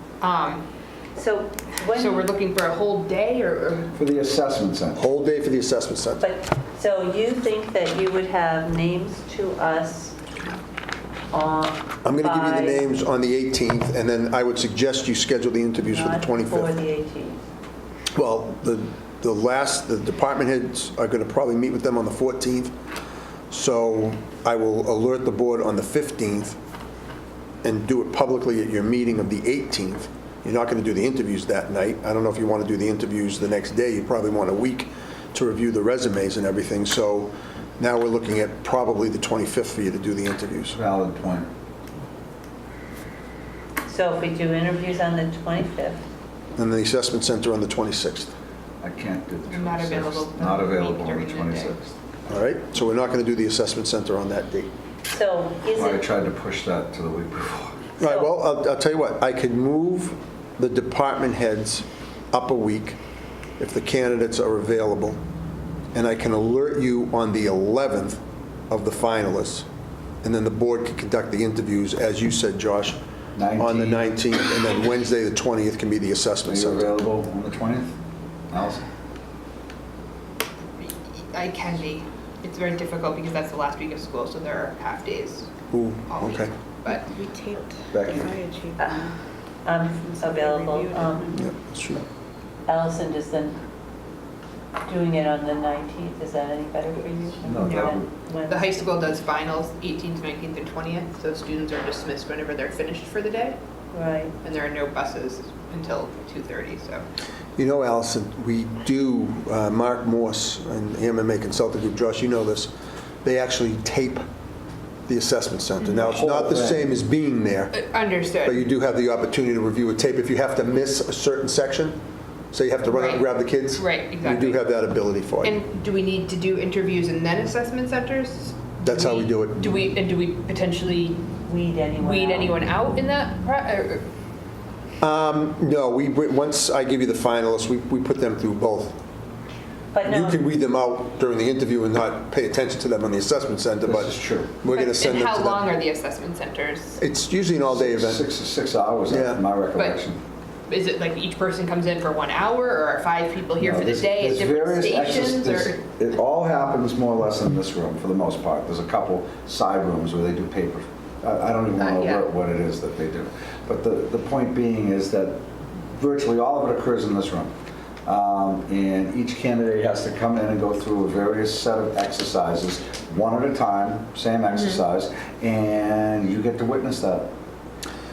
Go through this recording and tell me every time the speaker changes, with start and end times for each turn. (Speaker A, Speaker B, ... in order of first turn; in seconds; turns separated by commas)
Speaker A: 0.2-0.6, Speaker B: 1.2-2.2, Speaker A: 1.9-3.9, Speaker C: 3.9-5.0, Speaker D: 5.0-6.2, Speaker B: 6.2-10.2, Speaker B: 11.3-12.9, Speaker D: 12.0-16.7, Speaker B: 15.8-17.4, Speaker D: 18.1-22.7, Speaker D: 23.5-26.6, Speaker D: 27.6-40.8, Speaker C: 40.7-41.5, Speaker B: 43.9-46.0, Speaker D: 46.5-48.3, Speaker C: 48.8-52.0, Speaker A: 49.5-51.8, Speaker D: 52.3-54.7, Speaker B: 55.1-56.0, Speaker C: 55.7-57.9, Speaker D: 58.0-63.0, Speaker B: 58.0-58.3, Speaker D: 63.6-65.2, Speaker D: 65.9-69.7, Speaker D: 70.2-73.0, Speaker C: 73.3-74.1, Speaker D: 73.6-76.9, Speaker C: 76.5-77.9, Speaker C: 78.5-78.8, Speaker A: 80.8-85.5, Speaker D: 85.7-86.5, Speaker A: 86.1-87.1, Speaker E: 86.9-89.2, Speaker C: 87.9-88.4, Speaker B: 88.8-89.0, Speaker B: 89.6-91.4, Speaker E: 90.0-91.5, Speaker D: 91.3-92.0, Speaker B: 92.7-93.6, Speaker B: 94.8-98.9, Speaker C: 97.4-98.1, Speaker A: 97.6-103.6, Speaker B: 103.9-104.3, Speaker A: 104.4-107.0, Speaker D: 107.6-112.7, Speaker D: 113.2-114.2, Speaker D: 115.1-117.8, Speaker C: 116.0-117.0, Speaker A: 117.7-118.6, Speaker D: 118.4-122.0, Speaker D: 122.5-125.6, Speaker A: 122.9-124.6, Speaker A: 125.4-131.2, Speaker D: 128.8-129.7, Speaker B: 131.5-132.6, Speaker A: 132.0-134.1, Speaker D: 135.0-139.0, Speaker B: 139.9-140.4, Speaker D: 140.0-145.7, Speaker C: 143.8-144.5, Speaker A: 144.7-147.0, Speaker D: 147.0-148.2, Speaker C: 147.7-150.2, Speaker D: 149.1-149.4, Speaker A: 150.7-155.8, Speaker C: 153.6-167.5, Speaker A: 161.8-162.3, Speaker C: 168.1-177.3